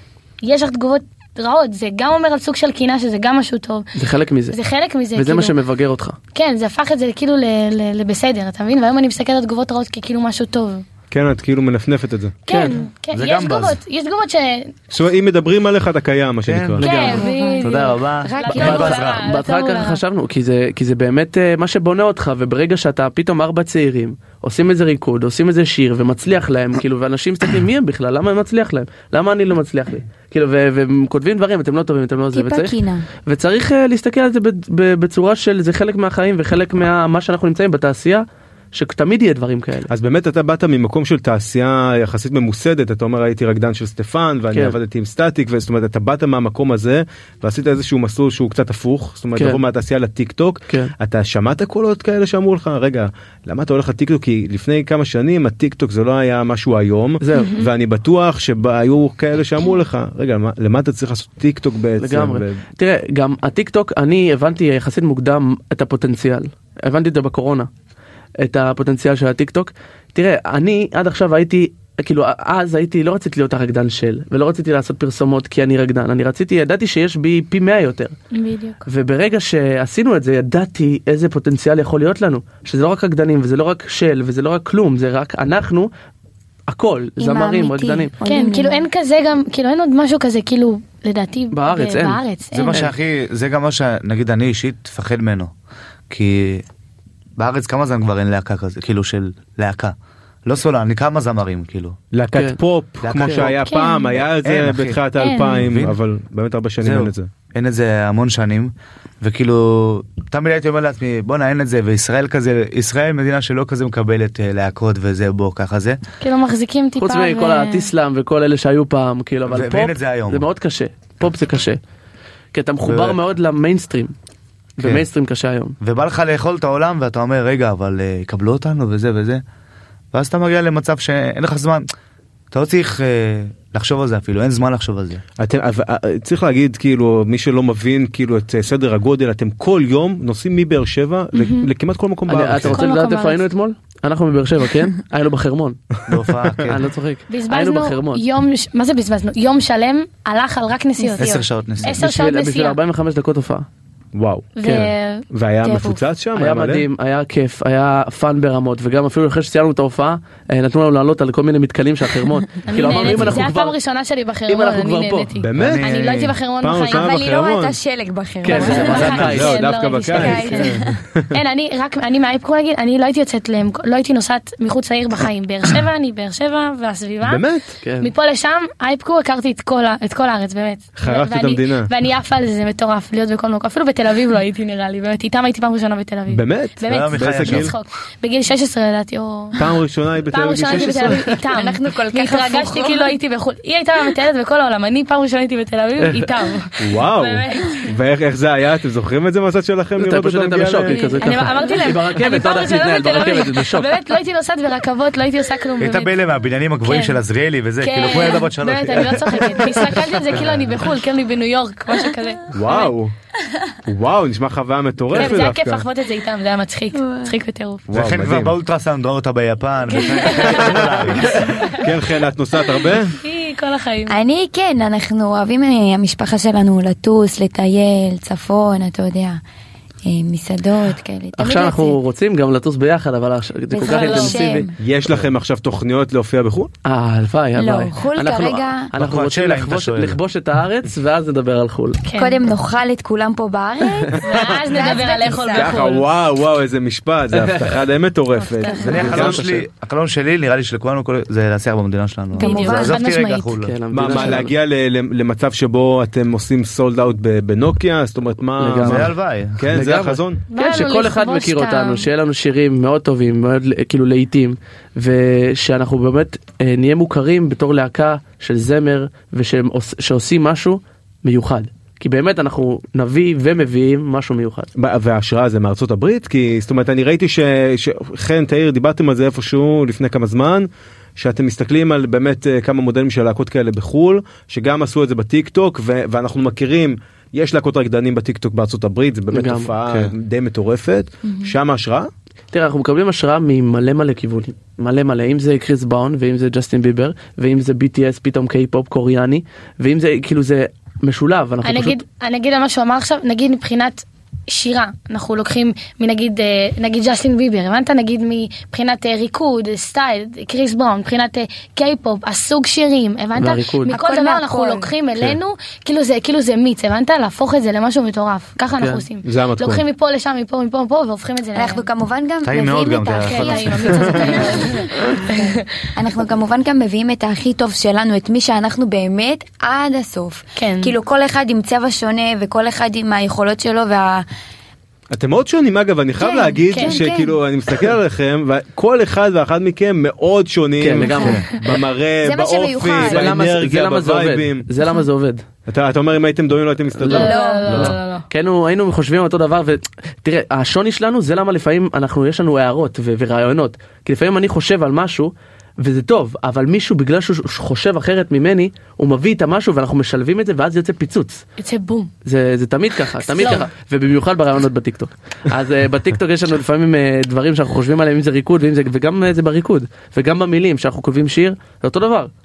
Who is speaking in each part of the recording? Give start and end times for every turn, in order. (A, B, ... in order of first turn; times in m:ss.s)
0:00.4-0:03.9 A
0:04.0-0:04.6 B
0:04.5-0:05.6 A
0:05.2-0:06.2 B
0:06.3-0:10.8 A
0:11.1-0:12.6 C
0:12.5-0:14.8 A
0:13.1-0:13.8 D
0:14.9-0:16.8 C
0:16.5-0:19.2 D
0:16.8-0:20.0 A
0:16.8-0:19.0 E
0:18.5-0:39.9 B
0:32.3-0:33.1 E
0:39.9-1:02.6 C
0:44.5-0:44.8 B
0:57.2-0:57.6 B
0:57.4-0:57.7 A
1:02.0-1:07.7 B
1:08.4-1:18.2 B
1:18.3-1:18.8 A
1:18.9-1:25.9 B
1:26.7-1:28.1 B
1:27.2-1:28.9 E
1:28.2-1:32.9 A
1:31.5-1:32.2 B
1:32.5-1:35.5 D
1:36.1-1:36.6 D
1:37.4-1:42.0 D
1:42.1-1:47.3 C
1:42.3-1:42.6 B
1:43.0-1:46.0 D
1:43.2-1:43.5 B
1:43.6-1:44.2 A
1:45.2-1:45.6 A
1:46.8-1:56.0 D
1:56.2-1:57.9 A
1:57.0-2:01.8 B
1:59.5-2:00.5 D
2:02.5-2:04.1 B
2:02.8-2:03.2 D
2:04.8-2:05.8 B
2:05.8-2:09.4 D
2:10.1-2:11.9 D
2:12.5-2:15.2 D
2:15.4-2:22.8 C
2:21.4-2:21.7 A
2:22.3-2:25.8 B
2:22.7-2:23.4 A
2:26.1-2:26.8 D
2:26.7-2:28.2 B
2:27.3-2:32.8 A
2:31.0-2:31.4 E
2:31.2-2:32.0 D
2:31.9-2:33.7 B
2:34.1-2:34.7 C
2:34.6-2:35.3 A
2:34.6-2:34.9 B
2:35.3-2:36.9 C
2:36.4-2:43.8 B
2:42.6-2:47.1 A
2:44.5-2:45.3 B
2:45.4-2:47.8 C
2:45.6-2:46.4 D
2:46.9-2:49.2 E
2:48.4-2:49.6 B
2:48.5-2:50.8 A
2:48.9-2:49.3 D
2:49.0-2:51.4 C
2:50.1-2:51.0 E
2:51.3-2:57.4 A
2:57.2-2:57.7 C
2:57.8-2:58.1 B
2:58.0-3:09.6 A
3:01.0-3:01.9 C
3:06.3-3:07.7 C
3:06.9-3:07.7 D
3:09.6-3:11.3 C
3:10.3-3:17.9 A
3:10.7-3:13.1 E
3:16.8-3:21.0 C
3:20.0-3:23.9 B
3:20.9-3:26.1 A
3:25.8-3:29.6 D
3:26.8-3:27.2 A
3:27.8-3:32.9 A
3:30.3-3:30.8 D
3:32.5-3:33.1 C
3:33.9-3:35.9 C
3:35.1-3:37.9 A
3:37.0-3:37.3 E
3:37.9-3:38.6 C
3:37.9-3:41.6 D
3:39.9-3:42.0 A
3:40.5-3:43.2 C
3:43.0-3:44.2 A
3:44.1-3:49.4 E
3:50.0-3:52.0 E
3:51.4-3:54.7 B
3:53.7-3:54.7 E
3:53.8-3:54.7 A
3:54.8-3:56.7 C
3:56.8-4:02.0 B
3:57.6-3:58.9 E
3:59.0-4:00.2 D
4:02.0-4:02.4 A
4:02.2-4:05.8 E
4:04.2-4:06.1 A
4:05.5-4:09.6 C
4:07.3-4:07.8 B
4:08.4-4:09.2 A
4:08.8-4:14.4 D
4:09.0-4:09.6 B
4:12.4-4:13.6 A
4:12.4-4:13.0 E
4:13.6-4:14.6 B
4:13.9-4:20.4 C
4:18.6-4:19.1 B
4:18.8-4:19.6 D
4:19.7-4:34.7 B
4:20.5-4:22.1 A
4:34.8-4:52.1 C
4:49.3-4:50.1 B
4:52.5-5:02.0 B
5:01.6-5:21.9 A
5:13.4-5:13.9 B
5:13.9-5:14.9 E
5:18.8-5:19.0 B
5:19.2-5:19.8 C
5:21.6-5:34.3 E
5:22.4-5:24.3 D
5:23.2-5:25.7 A
5:30.6-5:31.0 A
5:35.1-5:44.7 C
5:36.2-5:37.4 E
5:36.7-5:37.0 A
5:40.8-5:41.6 B
5:41.0-5:41.4 E
5:42.2-5:43.3 E
5:43.0-5:45.4 B
5:45.7-5:47.9 C
5:47.0-6:01.5 B
5:47.1-5:48.3 A
5:47.1-5:47.9 E
6:01.6-6:02.1 A
6:02.2-6:12.3 B
6:03.2-6:03.7 A